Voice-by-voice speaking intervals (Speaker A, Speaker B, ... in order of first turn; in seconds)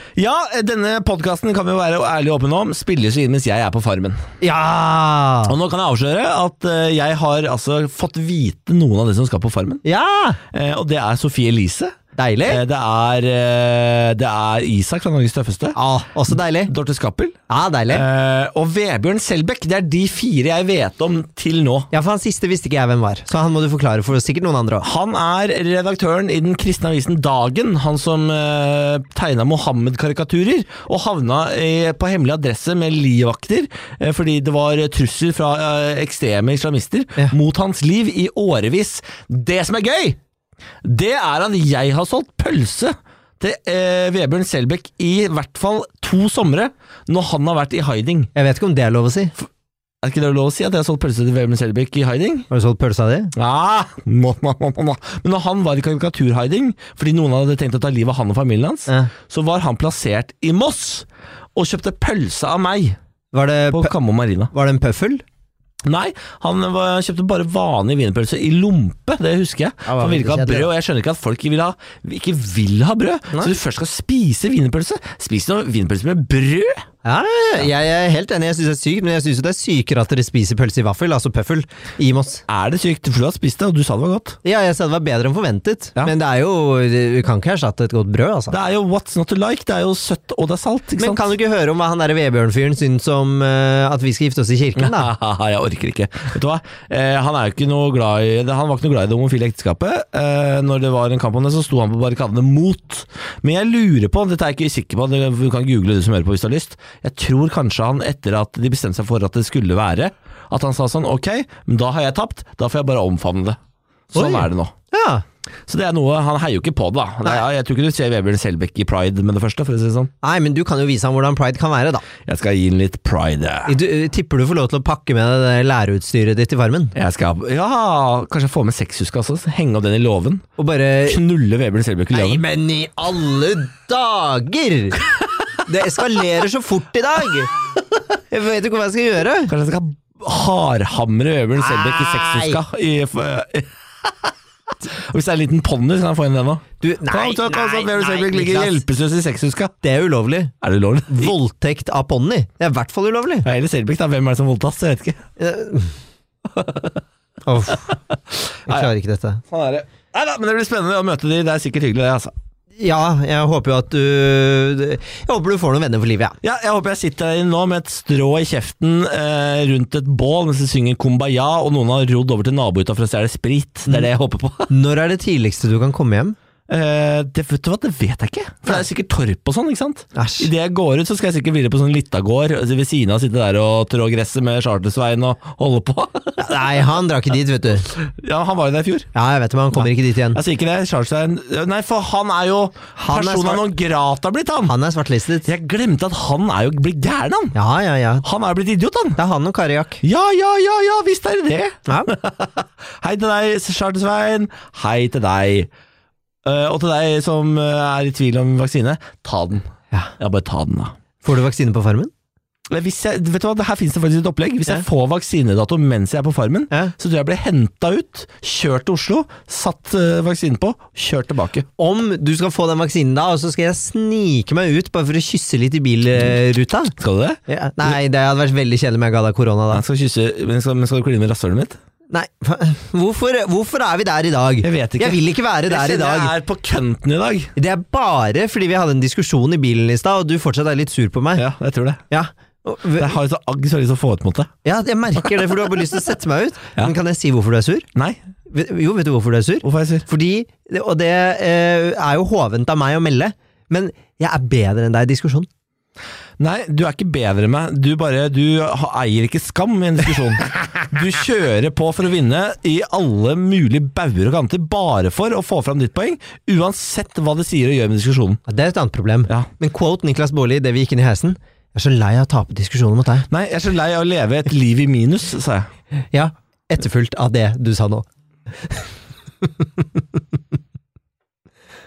Speaker A: 0.2-4.2, 5.5-9.8, 10.5-15.8, 16.7-17.3, 17.9-21.9, 24.8-40.2, 40.8-48.3, 50.0-52.5, 53.4-63.0, 63.7-64.5, 65.8-76.8, 82.5-84.4, 88.5-91.3, 94.8-113.6, 114.1-114.7, 115.7-120.1, 122.2-123.7, 127.0-130.4, 131.0-132.4, 139.5-149.7, 150.6-151.3, 153.4-155.2, 156.5-157.0, 157.9-158.9, 159.5-162.3, 166.4-174.7, 176.7-186.6, 187.9-189.1, 189.7-194.7, 195.4-197.6, 198.2-199.2, 200.0-205.7, 206.4-209.7, 210.2-210.9, 212.7-221.7, 227.0-228.0, 229.7-231.8, 234.6-237.5, 241.4-242.0, 243.0-244.5, 249.6-250.1, 256.4-268.4, 273.3-275.7
Speaker B: 4.4-5.5, 9.8-10.4, 12.2-12.6, 15.7-16.7, 17.5-18.0, 21.9-24.9, 48.3-49.3, 52.5-53.3, 63.3-63.9, 64.5-65.2, 69.9-70.7, 77.0-82.4, 84.4-88.6, 91.0-95.1, 114.1-115.2, 120.2-122.0, 123.7-126.9, 130.6-131.2, 132.1-135.0, 135.6-137.5, 138.3-139.5, 141.6-142.6, 146.8-148.8, 149.8-150.5, 151.1-153.5, 155.4-155.9, 157.4-157.9, 158.7-159.4, 162.8-166.4, 174.7-176.3, 180.1-180.5, 186.4-187.9, 189.1-190.4, 193.0-193.6, 194.7-195.5, 197.5-198.2, 199.2-200.0, 211.2-212.1, 221.8-226.9, 227.5-229.8, 232.1-236.3, 237.6-241.4, 242.1-243.1, 244.6-247.9, 248.5-255.5, 268.5-273.3, 276.1-278.9, 279.4-280.2